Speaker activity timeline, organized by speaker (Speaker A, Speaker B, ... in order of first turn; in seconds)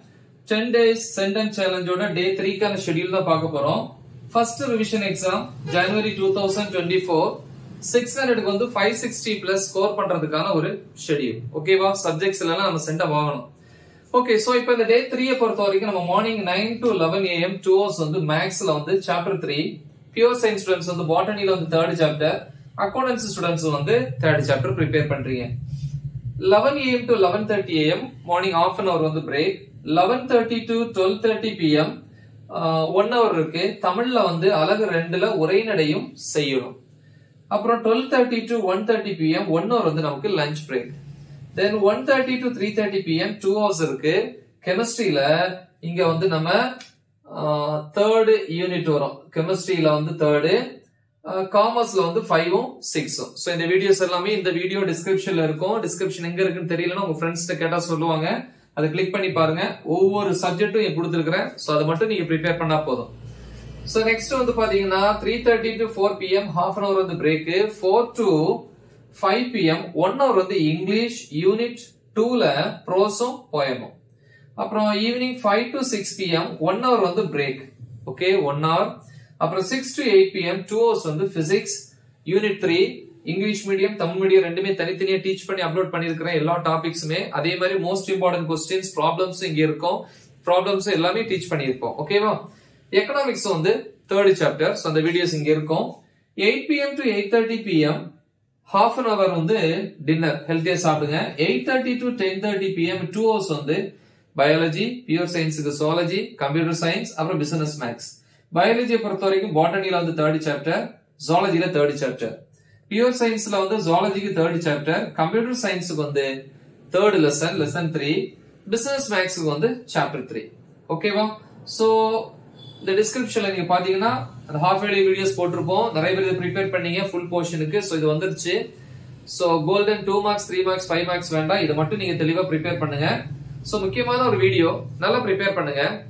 Speaker A: 0.5-13.4, 14.1-25.5, 26.4-31.9, 32.5-36.7, 37.5-40.9, 41.5-46.6, 47.3-50.6, 51.3-63.1, 63.9-68.6, 69.1-73.9, 74.6-92.4, 93.0-98.0, 98.7-103.8, 104.3-112.3, 112.9-116.3, 116.9-128.6, 129.3-135.9